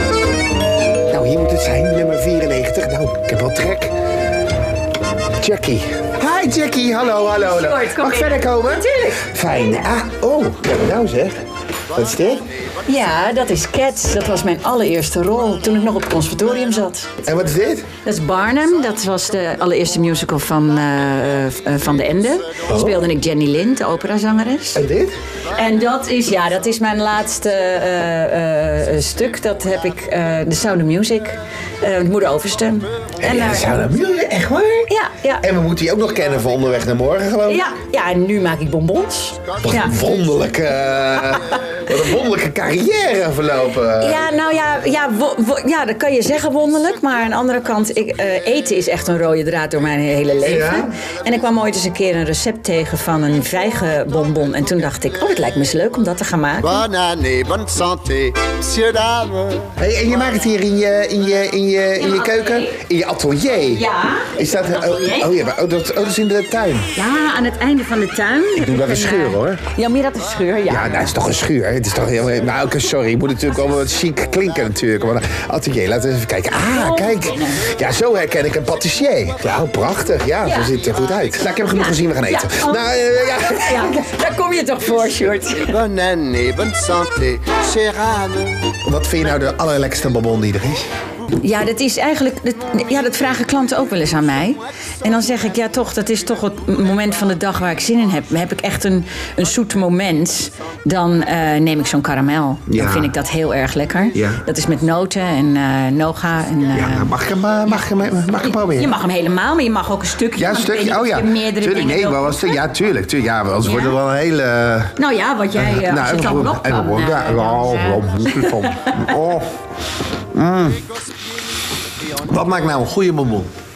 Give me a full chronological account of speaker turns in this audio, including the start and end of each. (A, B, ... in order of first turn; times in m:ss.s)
0:01.1-0:03.9 A
0:05.4-0:11.4 A
0:07.2-0:09.2 B
0:11.9-0:12.5 A
0:12.8-0:17.2 B
0:17.2-0:17.9 A
0:18.0-0:24.8 B
0:22.7-0:23.0 A
0:24.7-0:25.1 A
0:25.5-0:33.8 B
0:33.2-0:37.6 A
0:34.9-0:35.4 B
0:37.4-0:39.9 B
0:39.6-0:44.3 A
0:44.0-0:56.8 B
0:50.4-0:50.9 A
0:56.8-0:59.7 C
0:59.7-1:06.9 A
1:02.0-1:02.8 B
1:03.7-1:05.3 B
1:06.9-1:11.1 B
1:08.5-1:09.6 A
1:10.7-1:23.9 A
1:16.7-1:17.6 B
1:20.4-1:20.7 B
1:21.7-1:25.8 B
1:25.7-1:28.7 C
1:28.8-1:30.9 A
1:31.3-1:47.1 B
1:42.7-1:43.1 A
1:44.1-1:44.4 A
1:46.7-1:48.9 A
1:48.4-1:52.6 B
1:50.3-1:54.9 A
1:53.6-1:54.0 B
1:55.0-1:59.1 B
1:55.6-1:59.5 A
2:00.3-2:00.8 A
2:02.2-2:03.5 A